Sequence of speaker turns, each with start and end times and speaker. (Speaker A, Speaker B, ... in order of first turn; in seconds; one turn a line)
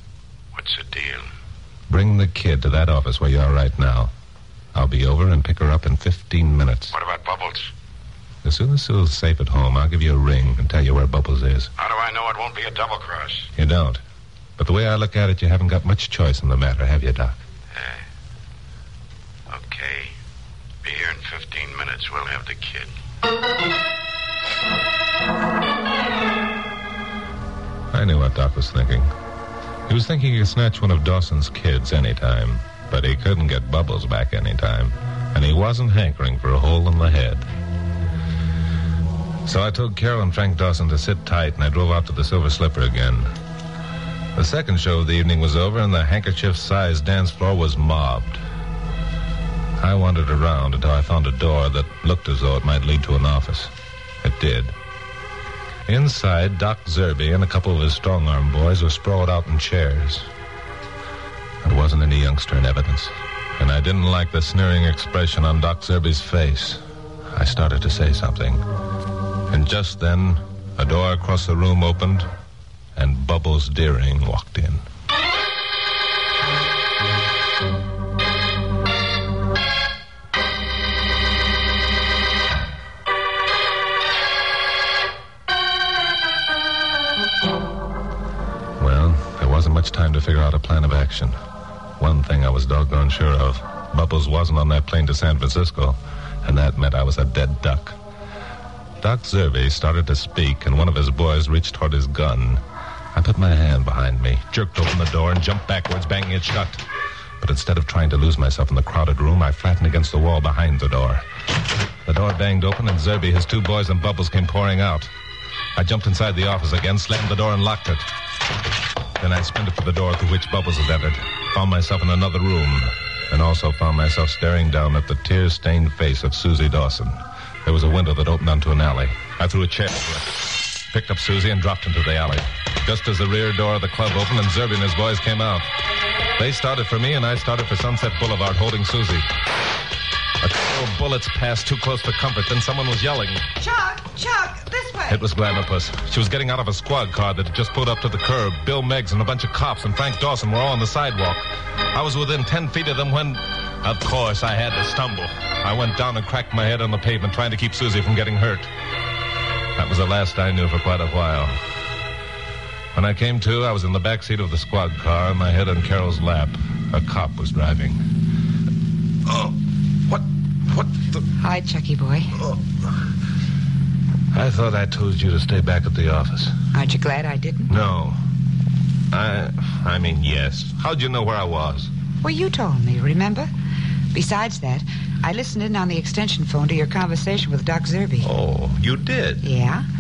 Speaker A: 0.5-1.3
Speaker B: 1.9-4.1
Speaker B: 4.7-6.9
Speaker A: 6.9-7.7
Speaker B: 8.4-11.7
Speaker A: 11.8-13.5
Speaker B: 13.6-14.0
Speaker B: 14.6-17.4
Speaker A: 17.7-18.0
Speaker A: 19.5-20.1
Speaker A: 20.8-22.9
Speaker B: 27.9-29.1
Speaker B: 29.9-37.5
Speaker B: 39.5-43.3
Speaker B: 44.4-48.4
Speaker B: 49.8-53.7
Speaker B: 54.2-54.8
Speaker B: 55.9-60.3
Speaker B: 61.6-66.8
Speaker B: 67.3-68.6
Speaker B: 69.5-72.3
Speaker B: 73.0-74.8
Speaker B: 88.8-91.4
Speaker B: 92.0-98.0
Speaker B: 99.0-102.6
Speaker B: 103.1-106.8
Speaker B: 107.4-111.2
Speaker B: 112.1-115.1
Speaker B: 115.8-118.1
Speaker B: 119.2-135.7
Speaker B: 136.4-139.3
Speaker B: 140.4-143.4
Speaker C: 143.6-145.2
Speaker B: 145.1-158.7
Speaker B: 159.8-161.6
Speaker B: 162.9-168.0
Speaker B: 169.3-169.5
Speaker B: 170.1-171.2
Speaker C: 171.4-172.3
Speaker B: 174.3-176.6
Speaker C: 176.7-177.7
Speaker B: 177.7-178.2
Speaker B: 179.1-181.9
Speaker C: 182.2-183.5
Speaker C: 184.1-188.3
Speaker B: 188.2-189.4
Speaker C: 189.4-189.8